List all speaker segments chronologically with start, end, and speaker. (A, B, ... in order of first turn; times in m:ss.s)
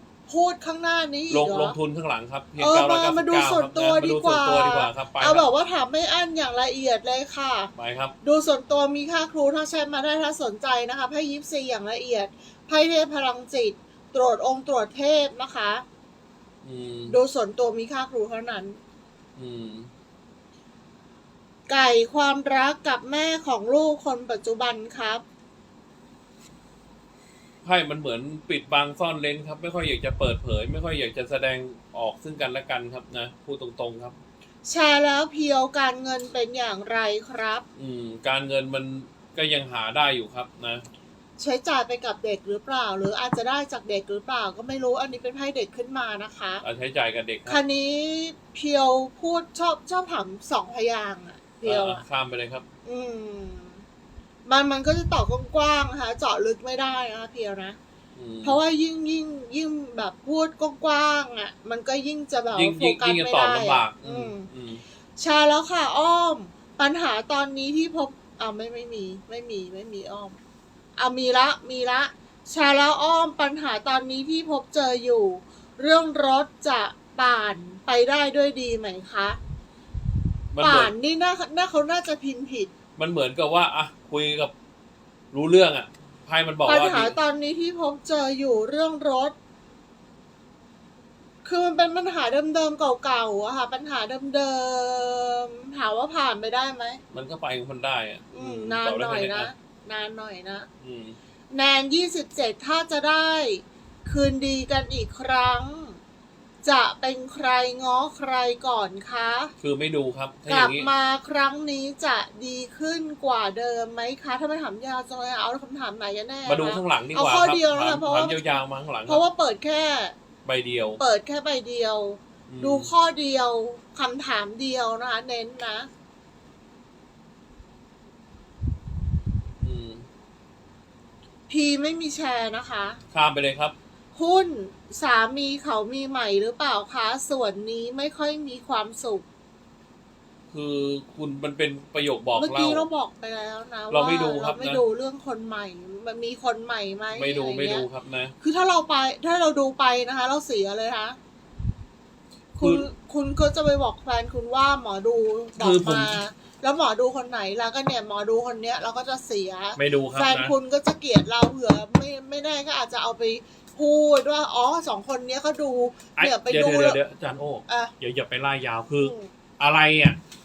0:00.3-0:01.8 A
0:01.3-0:05.4 B
0:02.6-0:15.8 A
0:07.8-0:08.1 B
0:16.6-0:17.2 B
0:17.1-0:18.8 A
0:19.4-0:19.9 B
0:21.7-0:25.2 A
0:27.6-0:34.2 B
0:34.6-0:37.6 A
0:37.8-0:40.8 B
0:41.4-0:46.6 A
0:46.6-0:47.6 B
0:47.5-0:52.0 A
0:51.6-0:52.6 B
0:52.8-0:53.8 A
0:54.4-0:57.8 A
0:58.2-0:58.6 B
0:58.4-1:04.5 A
1:02.5-1:04.8 B
1:05.2-1:10.4 A
1:11.0-1:19.4 A
1:20.5-1:20.9 B
1:20.6-1:22.7 A
1:23.0-1:24.5 B
1:25.3-1:27.2 B
1:26.6-1:29.4 A
1:31.4-1:37.0 A
1:37.1-1:39.5 B
1:38.3-1:40.7 A
1:40.8-1:41.2 B
1:41.5-1:46.0 A
1:46.6-1:49.5 A
1:49.6-1:50.9 B
1:50.5-1:58.4 A
1:56.4-1:59.2 B
1:59.0-2:00.2 A
2:00.4-2:01.0 B
2:01.0-2:05.9 A
2:02.5-2:02.9 B
2:09.6-2:10.0 B
2:11.5-2:13.0 A
2:13.1-2:13.7 B
2:14.1-2:19.2 A
2:20.5-2:22.9 B
2:22.4-2:27.8 A
2:23.9-2:24.8 B
2:27.1-2:28.3 B
2:28.4-2:31.2 A
2:32.6-2:47.0 A
2:32.6-2:32.9 B
2:35.6-2:36.2 B
2:39.8-2:40.5 B
2:46.2-2:50.2 B
2:47.7-2:47.9 A
2:49.0-2:49.3 A